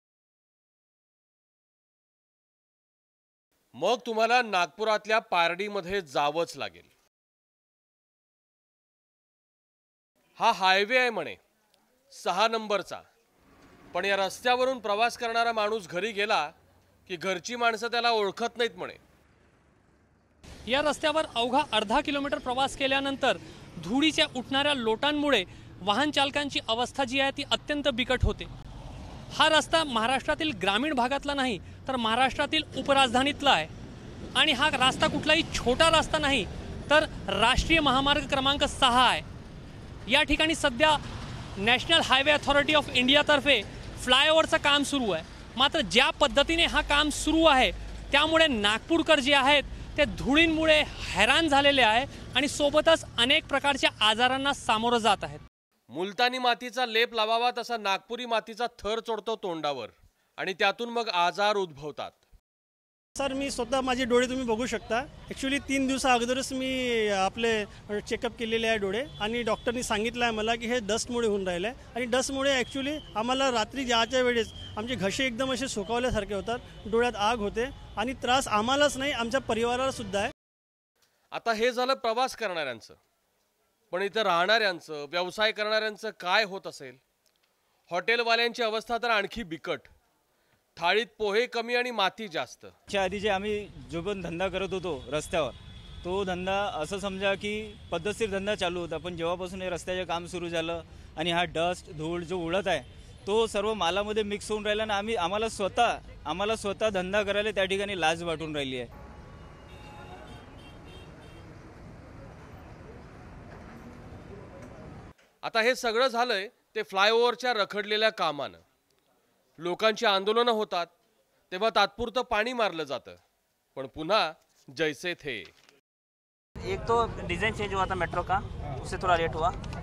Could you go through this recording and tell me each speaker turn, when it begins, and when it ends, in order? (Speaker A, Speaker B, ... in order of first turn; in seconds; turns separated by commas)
Speaker A: 3.8-6.9, Speaker A: 10.4-11.4, Speaker A: 12.1-13.0, Speaker A: 13.9-16.5, Speaker A: 17.1-19.0, Speaker B: 20.7-28.5, Speaker B: 29.3-33.7, Speaker B: 34.4-39.3, Speaker B: 40.1-41.0, Speaker B: 41.6-55.4, Speaker A: 55.9-62.2, Speaker C: 63.2-80.3, Speaker A: 81.3-83.0, Speaker A: 83.9-87.0, Speaker A: 87.9-89.9, Speaker A: 90.8-92.7, Speaker D: 92.9-108.9, Speaker A: 115.4-118.6, Speaker A: 119.6-120.9, Speaker A: 121.5-123.2, Speaker A: 123.8-125.5, Speaker E: 126.6-129.6